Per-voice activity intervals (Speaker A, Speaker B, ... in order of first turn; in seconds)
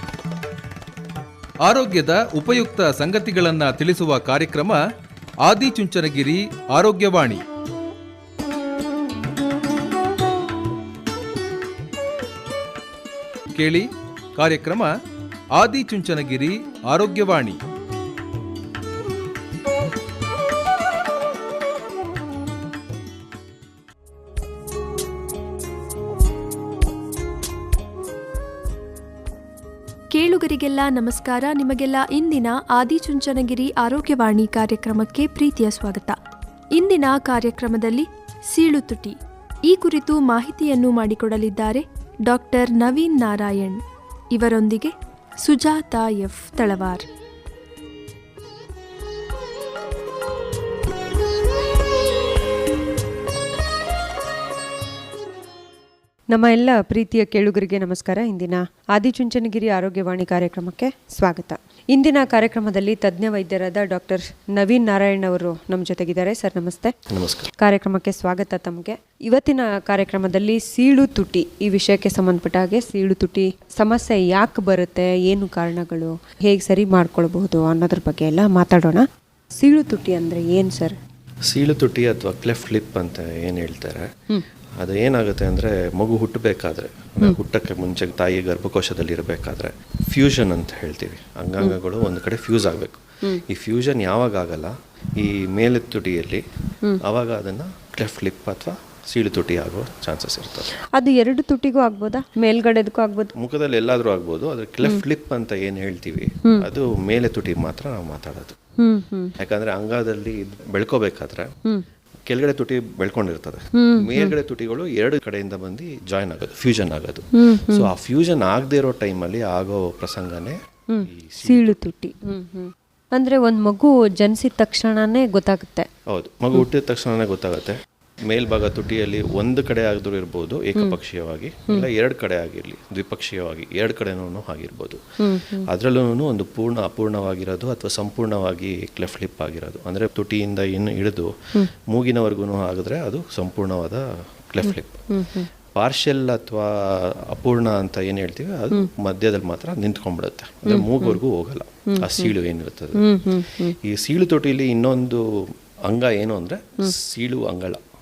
Speaker A: 1.6-4.8, 5.4-7.4, 13.6-14.9, 15.5-17.6
Speaker B: 30.1-36.2, 36.7-43.8, 44.3-47.1
Speaker C: 56.3-66.9, 67.6-79.0, 79.6-81.0, 100.9-103.3, 108.8-109.3, 113.7-114.3, 117.3-117.9, 120.9-125.9, 135.2-135.7, 144.6-145.5, 150.6-151.2, 151.9-152.3, 152.9-153.8
Speaker D: 67.1-67.5, 81.5-84.1, 84.8-96.4, 97.0-100.7, 103.3-108.5, 109.4-111.5, 112.2-121.8, 126.1-135.0, 135.6-145.1, 145.7-153.1, 153.8-157.8